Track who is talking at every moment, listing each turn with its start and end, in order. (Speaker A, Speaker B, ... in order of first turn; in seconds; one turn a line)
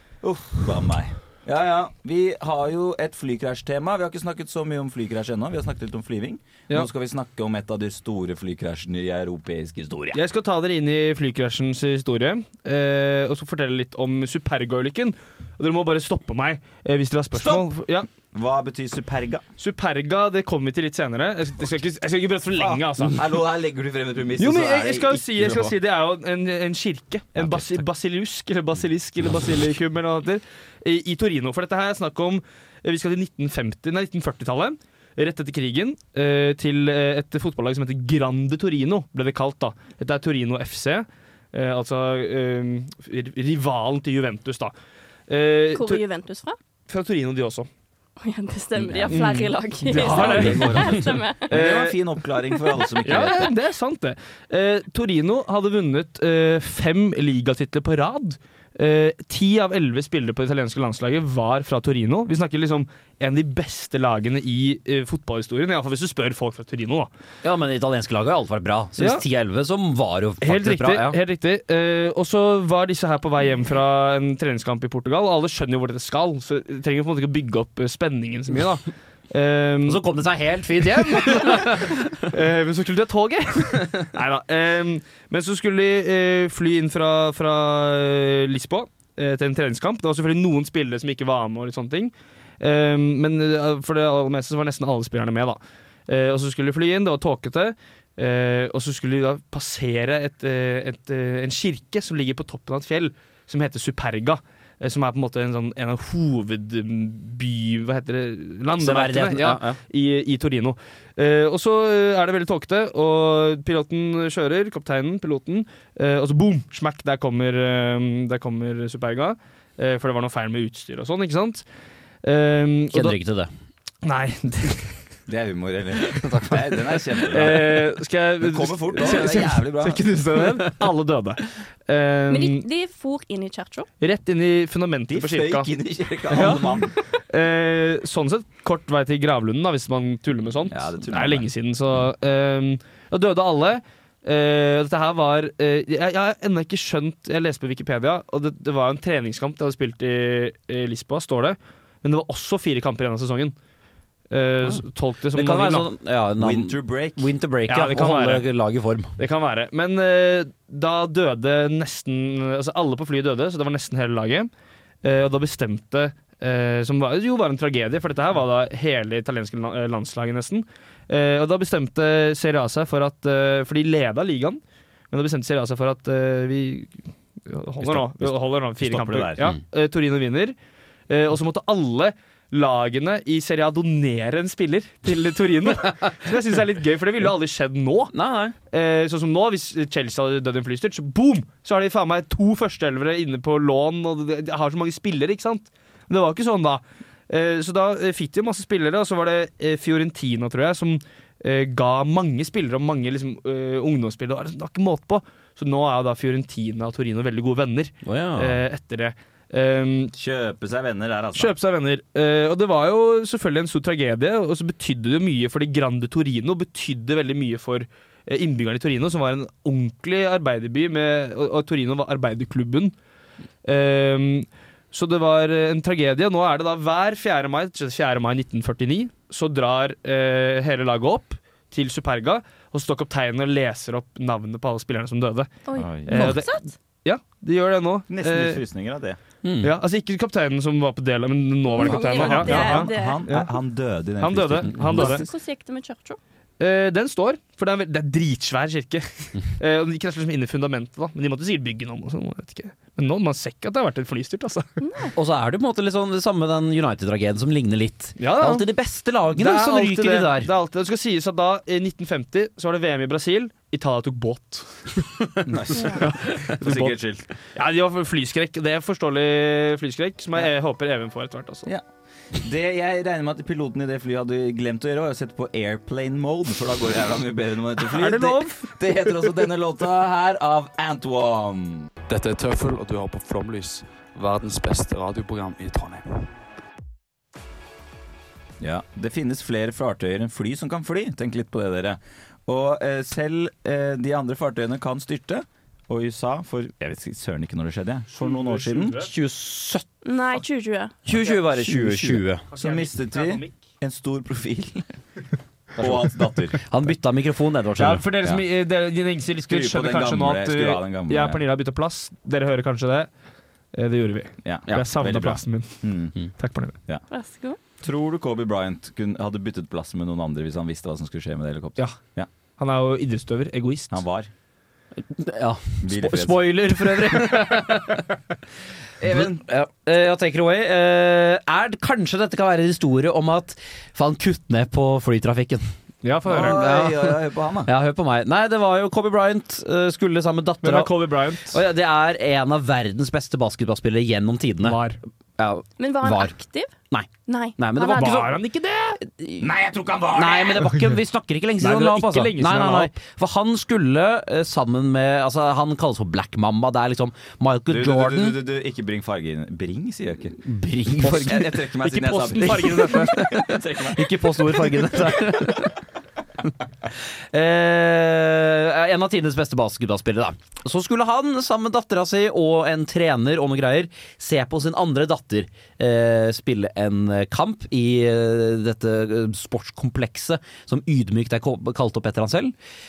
Speaker A: 0.2-10.2
Speaker B: 10.1-18.1
Speaker A: 17.3-17.7
Speaker A: 18.3-19.4
Speaker B: 19.6-23.2
Speaker A: 22.6-25.7
Speaker B: 24.4-44.7
Speaker A: 27.4-27.8
Speaker B: 45.3-46.0
Speaker C: 45.7-46.6
Speaker B: 46.9-47.7
Speaker C: 48.2-51.5
Speaker A: 48.8-49.1
Speaker B: 49.1-52.0
Speaker A: 49.9-53.6
Speaker B: 53.0-67.1
Speaker D: 67.4-71.2
Speaker B: 69.0-69.2
Speaker B: 70.4-80.0
Speaker D: 79.8-82.1
Speaker B: 80.8-121.6
Speaker D: 108.8-109.8
Speaker B: 122.2-123.2
Speaker D: 122.9-123.5
Speaker B: 124.0-125.0
Speaker A: 125.3-127.8
Speaker B: 127.3-132.6
Speaker A: 128.4-130.0
Speaker C: 132.3-133.9
Speaker B: 134.0-135.7
Speaker A: 135.1-136.9
Speaker B: 136.3-153.6
Speaker A: 140.7-141.5
Speaker B: 154.3-155.9
Speaker D: 155.3-159.1
Speaker A: 156.4-157.3
Speaker B: 157.7-158.5
Speaker B: 159.2-164.5
Speaker B: 165.0-174.6
Speaker B: 175.1-180.6
Speaker A: 177.8-179.5
Speaker B: 181.1-188.1
Speaker D: 188.1-188.6
Speaker B: 188.7-210.1
Speaker D: 208.0-208.6
Speaker A: 210.1-211.5
Speaker B: 211.3-222.9
Speaker B: 223.7-238.6
Speaker C: 235.7-236.7
Speaker A: 235.8-236.1
Speaker D: 236.1-236.4
Speaker A: 238.1-239.2
Speaker D: 239.4-239.7
Speaker B: 239.6-243.5
Speaker C: 241.8-243.2
Speaker A: 241.8-245.3
Speaker B: 244.2-245.2
Speaker C: 244.9-246.2
Speaker B: 246.6-254.7
Speaker C: 254.8-255.1
Speaker D: 255.2-260.5
Speaker B: 258.2-258.7
Speaker B: 259.4-265.2
Speaker A: 265.4-267.3
Speaker C: 265.7-266.0
Speaker B: 266.0-267.0
Speaker B: 267.5-271.7
Speaker A: 271.7-281.9
Speaker B: 277.8-278.7
Speaker E: 282.1-286.2
Speaker A: 288.6-299.1
Speaker B: 298.1-299.1
Speaker D: 299.0-299.9
Speaker C: 300.0-300.9
Speaker D: 301.1-302.4
Speaker A: 301.1-304.9
Speaker B: 302.5-303.6
Speaker A: 305.8-306.6
Speaker D: 305.8-306.1
Speaker D: 306.6-308.1
Speaker B: 307.8-313.1
Speaker A: 309.5-311.4
Speaker B: 313.7-315.9
Speaker A: 314.4-316.1
Speaker B: 316.4-316.8
Speaker C: 317.1-317.6
Speaker A: 317.8-322.3
Speaker B: 322.6-324.0
Speaker A: 323.9-324.3
Speaker D: 325.0-328.1
Speaker A: 325.8-327.3
Speaker A: 329.0-329.4
Speaker D: 329.0-335.7
Speaker B: 336.0-336.6
Speaker D: 336.3-344.8
Speaker A: 336.3-337.7
Speaker B: 340.6-341.6
Speaker B: 344.6-345.0
Speaker D: 345.4-346.3
Speaker C: 345.8-346.7
Speaker D: 346.9-348.4
Speaker C: 347.3-348.2
Speaker B: 347.9-349.0
Speaker D: 349.0-349.5
Speaker A: 349.4-350.7
Speaker D: 350.1-358.4
Speaker B: 351.6-352.9
Speaker A: 357.7-360.4
Speaker D: 360.4-361.7
Speaker A: 361.0-364.1
Speaker B: 361.2-363.5
Speaker D: 362.3-365.8
Speaker D: 367.3-382.6